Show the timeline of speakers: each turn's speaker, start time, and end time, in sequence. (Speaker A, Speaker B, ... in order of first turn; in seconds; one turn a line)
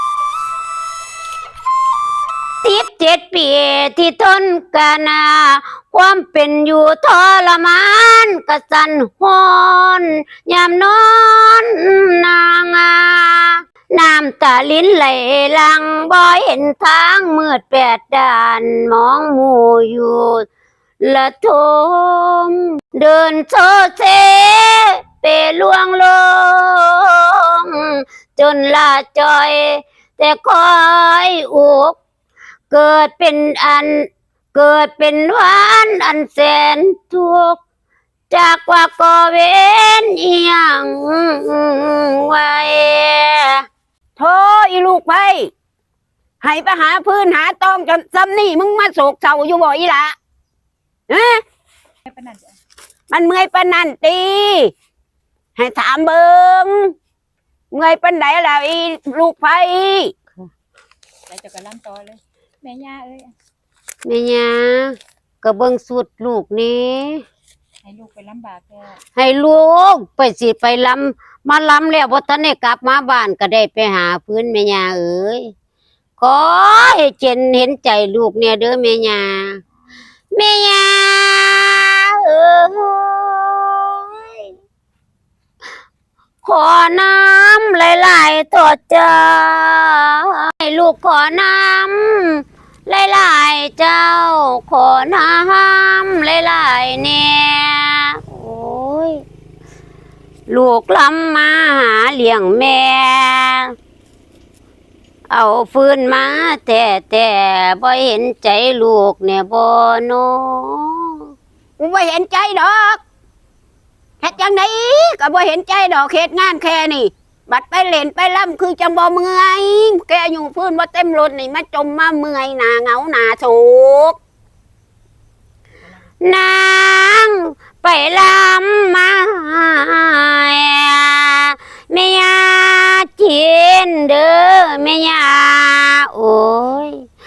Speaker A: 2.6-20.4
Speaker A: 21.0-32.0
Speaker A: 32.7-37.6
Speaker A: 38.3-43.6
Speaker B: 44.2-45.5
Speaker B: 46.4-50.1
Speaker B: 51.1-51.4
Speaker C: 52.0-52.5
Speaker B: 53.1-54.7
Speaker B: 55.5-56.9
Speaker B: 57.7-60.1
Speaker C: 61.3-63.3
Speaker A: 64.0-67.2
Speaker C: 67.8-69.0
Speaker A: 69.2-75.5
Speaker A: 76.2-79.6
Speaker A: 80.3-84.3
Speaker A: 86.4-99.2
Speaker A: 100.5-103.7
Speaker A: 105.3-111.2
Speaker B: 111.8-113.0
Speaker B: 114.2-124.2
Speaker A: 126.2-137.1